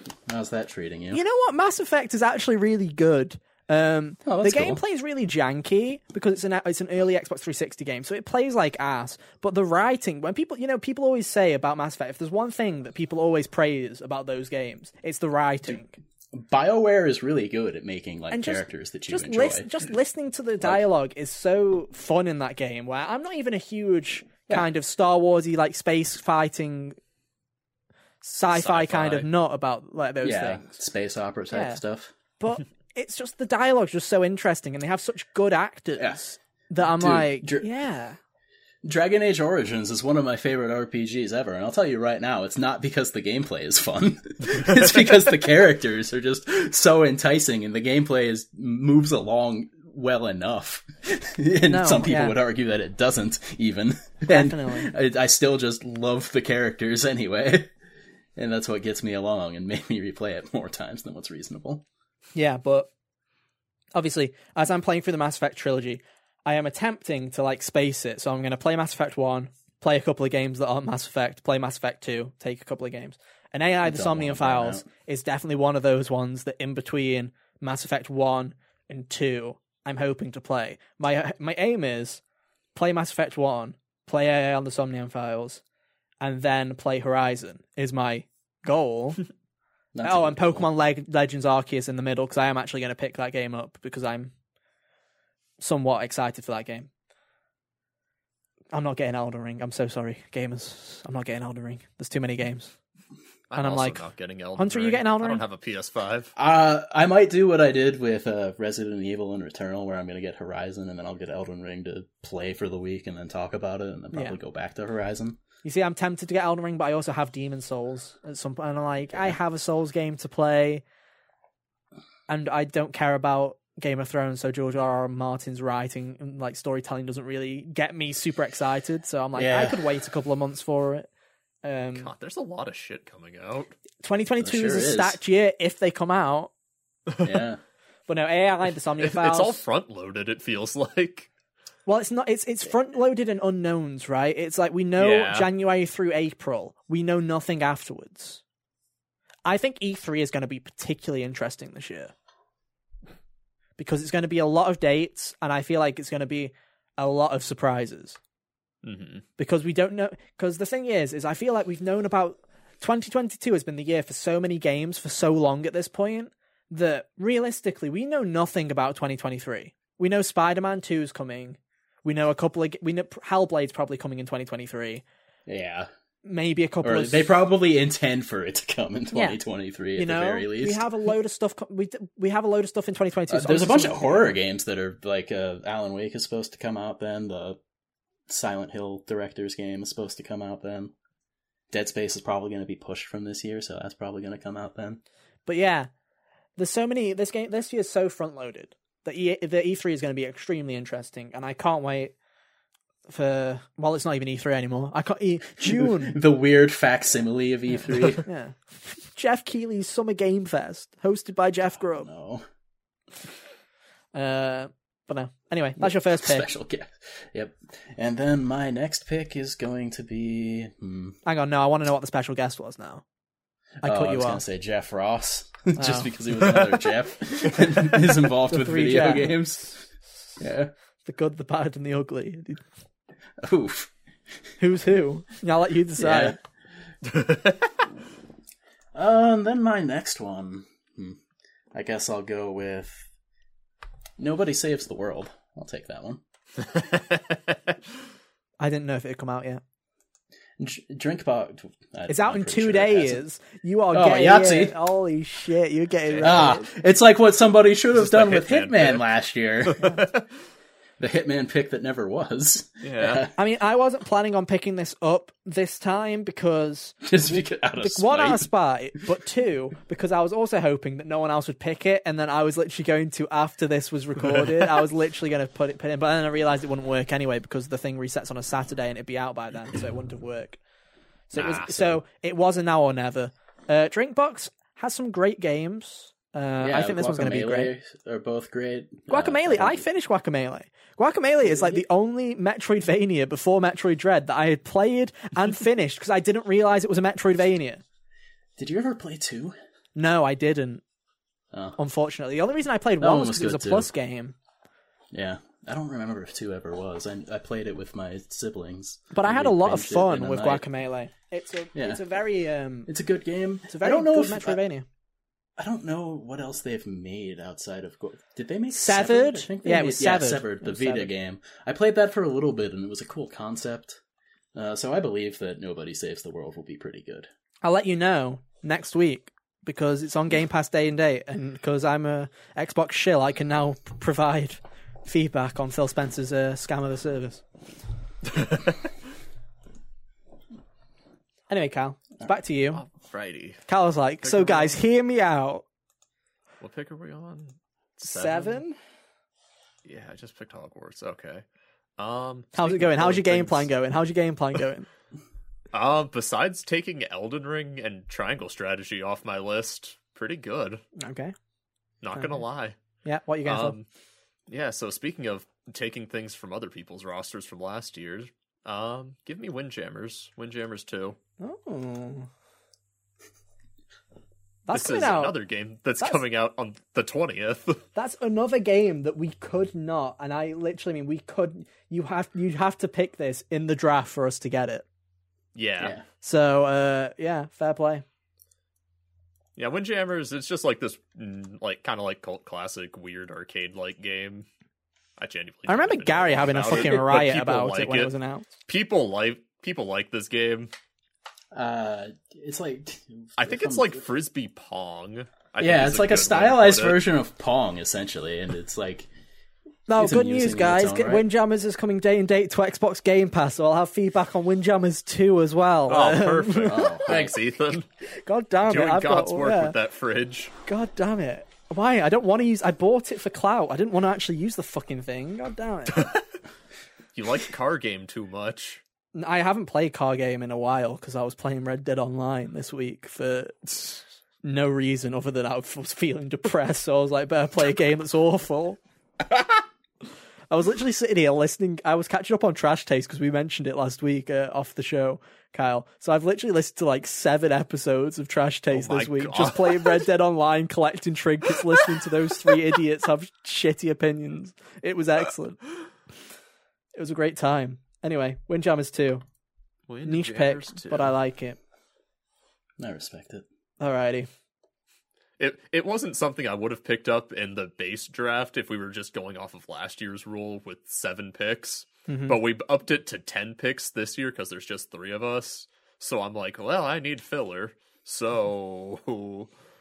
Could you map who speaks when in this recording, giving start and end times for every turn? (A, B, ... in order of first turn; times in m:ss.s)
0:00.3-0:01.2 A
0:01.1-0:16.0 B
0:04.2-0:04.8 A
0:16.3-0:19.8 A
0:18.3-0:27.0 B
0:28.2-0:30.7 B
0:28.5-0:29.3 C
0:30.2-0:32.1 A
0:31.5-0:31.8 B
0:32.4-0:38.2 B
0:36.8-0:37.7 A
0:38.8-0:57.7 A
0:51.7-0:52.4 B
0:54.3-0:54.9 B
0:58.4-1:01.8 A
1:02.3-1:02.9 B
1:03.9-1:22.2 B
1:13.8-1:14.9 A
1:22.7-1:25.6 B
1:26.2-1:29.2 B
1:29.9-1:30.7 A
1:30.0-1:34.3 B
1:35.6-1:36.9 B
1:38.7-1:42.7 B
1:43.5-1:46.3 C
1:43.5-1:44.0 B
1:44.6-1:45.4 B
1:46.4-1:55.4 A
1:55.6-2:00.8 B
2:02.3-2:11.1 B
2:09.4-2:09.8 A
2:11.6-2:12.1 B
2:12.0-2:13.7 C
2:14.0-2:16.5 B
2:14.4-2:15.2 A
2:17.2-2:17.6 A
2:18.1-2:19.6 B
2:19.0-2:21.3 C
2:21.8-2:28.4 B
2:25.0-2:25.5 C
2:29.4-2:32.1 B
2:33.8-2:38.2 B
2:38.8-2:39.2 C
2:39.4-2:55.0 B
2:55.5-2:55.9 A
2:56.2-2:57.3 B
2:56.8-3:00.8 A
2:59.1-2:59.4 B
3:00.0-3:04.4 B
3:03.3-3:07.6 A
3:08.3-3:10.9 A
3:11.7-3:15.0 A
3:15.4-3:15.9 B
3:16.6-3:22.1 B
3:23.1-3:26.2 B
3:25.6-3:28.2 A
3:28.2-3:32.1 B
3:31.9-3:32.4 A
3:34.1-3:36.5 B
3:35.8-3:41.2 A
3:41.2-3:43.0 B
3:43.8-3:49.8 A
3:43.8-3:44.4 B
3:45.8-3:46.1 B
3:46.4-3:46.8 C
3:48.5-3:49.4 B
3:50.4-3:50.7 A
3:51.0-3:52.6 B
3:53.4-3:53.9 A
3:54.6-3:56.4 B
3:56.0-3:56.4 A
3:57.0-3:57.8 C
3:58.9-4:01.2 A
4:01.7-4:03.0 A
4:04.2-4:06.2 A
4:06.6-4:07.7 C
4:08.6-4:09.6 B
4:10.6-4:13.2 A
4:12.1-4:16.7 B
4:13.9-4:14.8 A
4:16.1-4:16.4 C
4:16.2-4:20.0 A
4:18.0-4:19.0 C
4:19.6-4:20.2 C
4:21.0-4:23.3 A
4:22.8-4:23.2 C
4:23.4-4:40.6 B
4:27.0-4:28.4 A
4:41.3-4:47.7 B
4:41.3-4:42.0 A
4:46.6-4:49.8 A
4:49.1-4:57.8 B
4:51.4-4:51.8 A
4:58.6-4:59.5 A
4:59.9-5:00.8 B
5:01.5-5:01.8 A
5:01.8-5:04.4 B
5:03.0-5:03.9 A
5:05.1-5:10.6 A
5:09.1-5:12.9 B
5:11.7-5:12.0 A
5:12.9-5:14.6 A
5:13.7-5:14.8 B
5:15.6-5:24.0 A
5:18.7-5:21.1 B
5:24.5-5:27.3 A
5:27.6-5:37.4 B
5:38.3-5:38.7 C
5:41.5-5:42.8 B
5:42.7-5:43.6 C
5:43.7-5:45.6 B
5:44.2-5:44.8 C
5:46.6-5:48.6 C
5:48.0-5:48.8 B
5:49.8-5:51.4 C
5:52.0-5:53.6 C
5:52.5-5:54.9 B
5:53.1-5:53.4 A
5:55.7-6:00.8 C
6:01.0-6:01.3 B
6:02.0-6:02.8 C
6:02.1-6:02.4 B
6:03.0-6:03.8 B
6:03.4-6:03.8 C
6:04.5-6:11.2 C
6:11.4-6:12.3 B
6:14.6-6:15.4 B
6:14.7-6:17.8 C
6:17.9-6:24.8 B
6:25.5-6:25.9 C
6:26.2-6:28.0 B
6:29.6-6:34.5 C
6:35.2-6:38.1 C
6:35.7-6:38.5 B
6:38.6-6:40.7 C
6:41.5-6:44.0 A
6:43.4-6:47.0 C
6:45.6-6:49.1 A
6:49.9-6:56.9 B
6:50.0-6:51.2 A
6:55.9-6:57.8 C
6:56.6-6:57.4 A
6:58.1-6:59.8 B
6:58.7-7:00.5 C
7:00.6-7:06.1 B
7:05.9-7:06.2 C
7:07.1-7:08.8 C
7:09.1-7:18.8 B
7:20.5-7:35.6 B
7:28.7-7:30.0 C
7:36.9-7:39.2 B
7:39.9-7:41.1 C
7:40.0-7:41.6 B
7:42.8-7:43.4 A
7:43.8-7:44.3 B
7:45.4-7:59.5 C
7:52.1-7:52.4 B